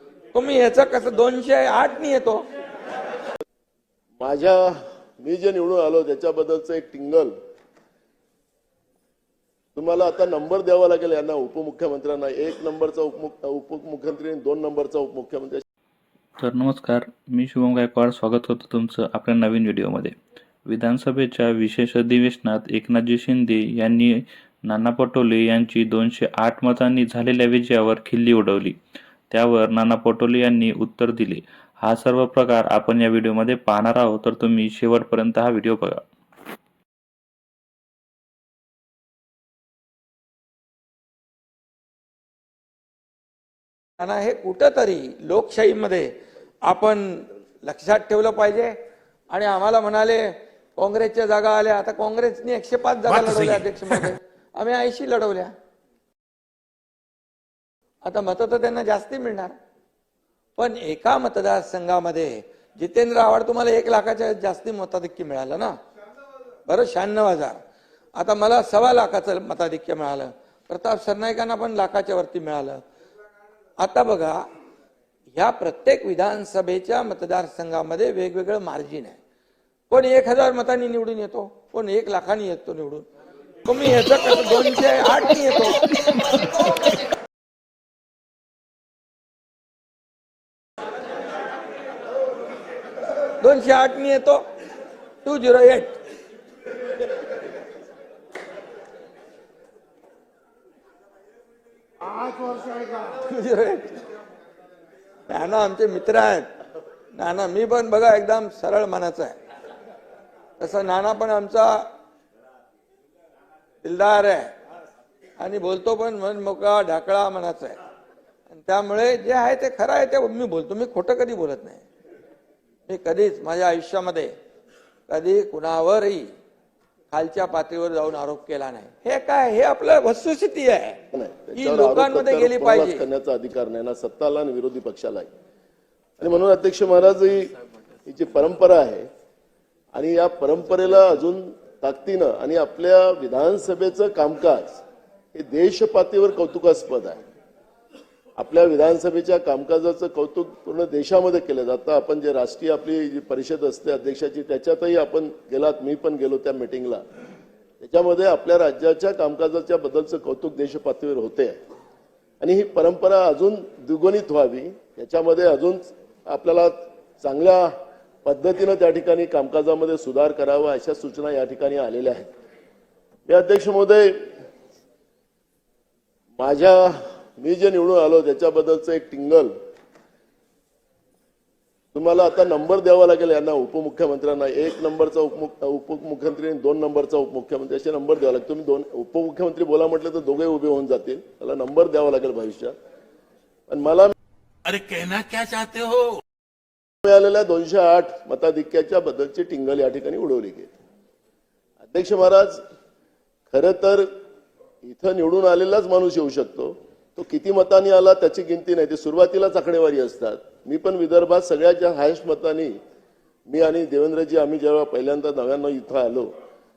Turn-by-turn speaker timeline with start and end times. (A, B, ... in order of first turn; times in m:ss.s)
0:00.3-0:02.4 A
0:04.2-0:07.3 B
0:09.8-0:15.6 B
0:16.4-0:20.2 C
0:20.7-0:24.1 C
0:24.7-0:28.8 C
0:29.3-0:36.0 C
0:44.0-0:46.1 A
0:46.6-0:48.8 A
0:49.3-0:55.5 A
0:53.1-0:54.1 D
0:58.0-0:59.5 A
1:00.6-1:05.7 A
1:06.7-1:07.6 A
1:08.2-1:12.8 A
1:13.8-1:14.4 A
1:15.3-1:19.2 A
1:19.9-1:23.0 A
1:23.6-1:25.9 A
1:33.3-1:34.4 A
1:35.2-1:36.0 A
1:42.1-1:44.0 A
1:45.3-1:46.5 A
1:47.1-1:49.4 A
1:50.6-1:51.9 A
1:53.8-1:54.5 A
1:55.4-1:57.8 A
1:58.5-2:01.8 A
2:02.9-2:04.3 A
2:05.1-2:06.3 A
2:07.1-2:11.0 A
2:11.1-2:15.3 B
2:11.6-2:13.0 A
2:16.2-2:19.1 B
2:19.9-2:24.8 B
2:25.3-2:27.2 B
2:28.4-2:37.0 B
2:37.8-2:41.6 B
2:42.4-2:47.7 B
2:48.2-2:52.3 B
2:53.3-2:54.2 B
2:56.4-2:59.5 B
3:01.9-3:12.7 B
3:13.7-3:14.1 B
3:14.6-3:16.2 D
3:17.0-3:20.7 B
3:21.8-3:22.6 B
3:23.5-3:24.1 B
3:24.8-3:32.8 B
3:33.5-3:36.3 B